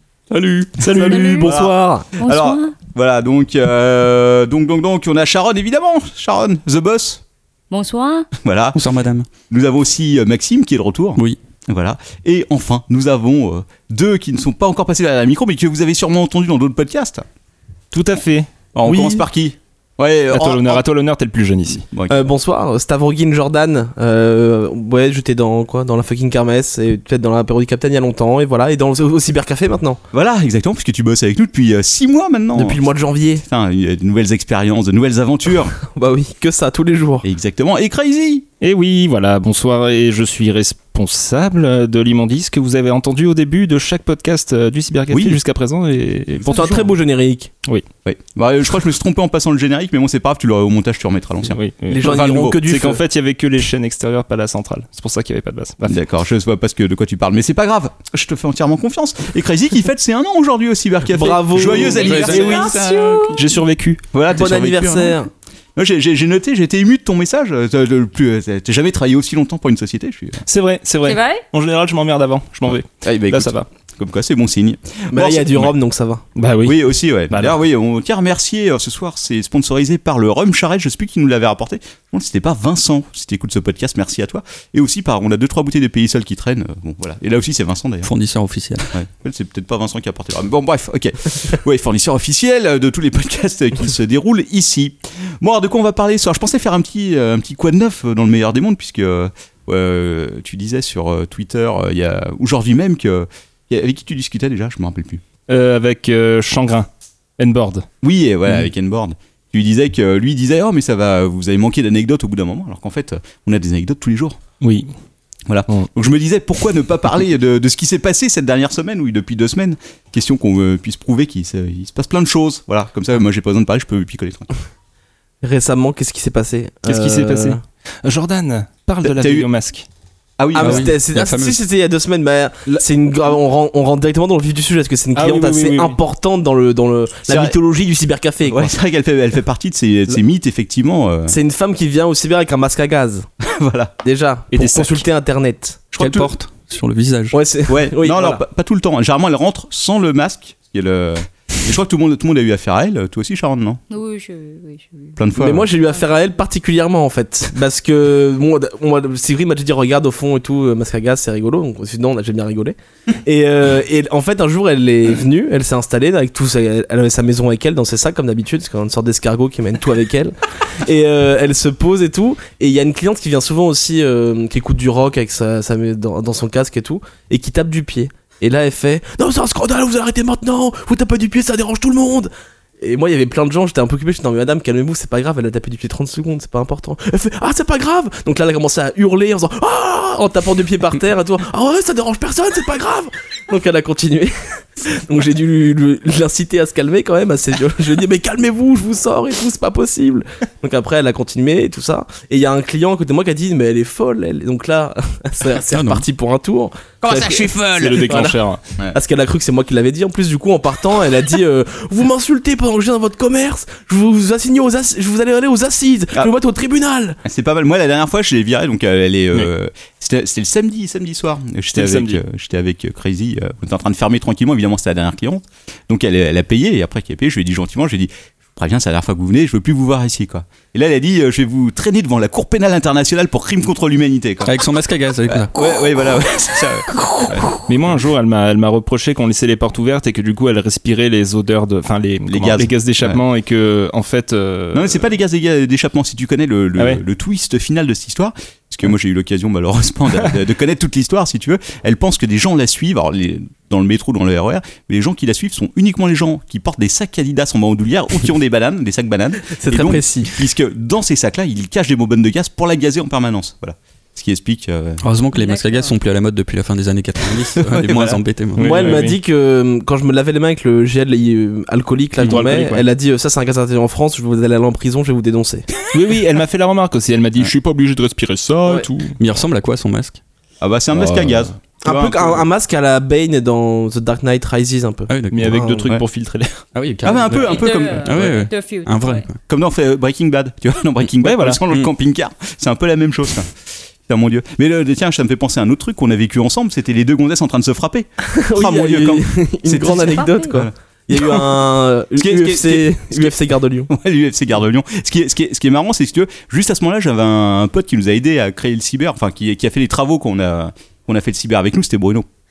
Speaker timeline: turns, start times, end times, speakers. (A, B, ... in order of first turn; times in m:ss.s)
0:00.3-0:01.2 A
0:00.8-0:01.5 B
0:00.9-0:02.1 C
0:01.0-0:01.5 D
0:01.4-0:07.2 E
0:02.2-0:02.8 D
0:07.7-0:08.3 D
0:08.4-0:08.8 E
0:08.7-0:09.3 A
0:09.5-0:17.2 E
0:17.9-0:18.5 B
0:18.7-0:20.8 E
0:18.8-0:19.2 C
0:20.3-0:21.9 B
0:21.9-0:22.2 E
0:22.1-0:30.0 C
0:30.1-0:32.8 E
0:32.5-0:33.4 C
0:33.4-0:35.7 E
0:35.8-0:37.2 C
0:37.2-0:38.4 E
0:38.6-0:46.9 B
0:45.1-0:45.4 E
0:46.4-0:47.5 C
0:48.0-0:52.7 E
0:51.4-0:52.1 B
0:51.9-0:53.0 C
0:52.6-0:56.0 B
0:55.8-1:03.4 E
1:01.1-1:02.1 C
1:02.0-1:03.4 D
1:02.0-1:02.9 A
1:02.0-1:04.0 B
1:04.1-1:05.2 E
1:04.3-1:05.3 C
1:05.8-1:10.4 E
1:10.5-1:13.7 B
1:11.0-1:11.4 D
1:13.0-1:15.7 E
1:15.1-1:16.2 C
1:16.4-1:17.6 B
1:16.6-1:28.1 E
1:28.0-1:28.9 A
1:28.9-1:45.2 E
1:45.5-1:47.8 B
1:48.0-1:54.4 E
1:54.6-1:54.9 B
1:55.5-2:04.5 E
2:05.4-2:07.6 C
2:06.9-2:09.9 B
2:09.0-2:09.4 E
2:10.4-2:10.9 E
2:10.5-2:18.7 C
2:10.6-2:11.6 A
2:15.1-2:16.0 B
2:17.3-2:17.5 E
2:18.5-2:21.4 E
2:21.3-2:23.3 C
2:23.4-2:23.9 E
2:24.0-2:25.9 C
2:24.5-2:25.0 B
2:26.0-2:26.3 E
2:26.0-2:27.4 A
2:27.3-2:28.4 C
2:27.7-2:33.8 E
2:33.9-2:35.2 D
2:35.2-2:35.6 E
2:35.3-3:27.5 C
2:35.9-2:36.2 D
3:25.7-3:26.0 A
3:27.2-3:28.2 E
3:27.3-3:28.6 B
3:28.0-3:28.4 C
3:28.9-3:37.2 C
3:37.2-3:54.6 E
3:41.7-3:42.2 B
3:54.4-3:55.5 A
3:55.3-3:57.6 E
3:57.6-4:05.1 B
4:02.3-4:03.2 E
4:04.7-4:25.0 E
4:06.8-4:07.0 B
4:19.5-4:20.4 C
4:25.0-4:29.0 A
4:25.3-4:25.9 D
4:27.6-4:28.2 E
4:28.6-4:29.2 B
4:28.6-4:35.7 C
4:32.2-4:32.8 B
4:35.9-4:39.2 B
4:39.2-4:40.2 A
4:40.6-4:42.4 E
4:40.9-4:41.5 B
4:41.8-4:45.9 C
4:45.1-4:45.6 A
4:45.3-4:46.6 B
4:46.7-4:49.3 A
4:47.0-4:48.3 E
4:47.3-4:49.3 D
4:49.5-4:53.5 E
4:51.2-4:51.6 B
4:54.0-5:03.3 E
4:58.2-5:03.9 C
5:03.9-5:12.2 E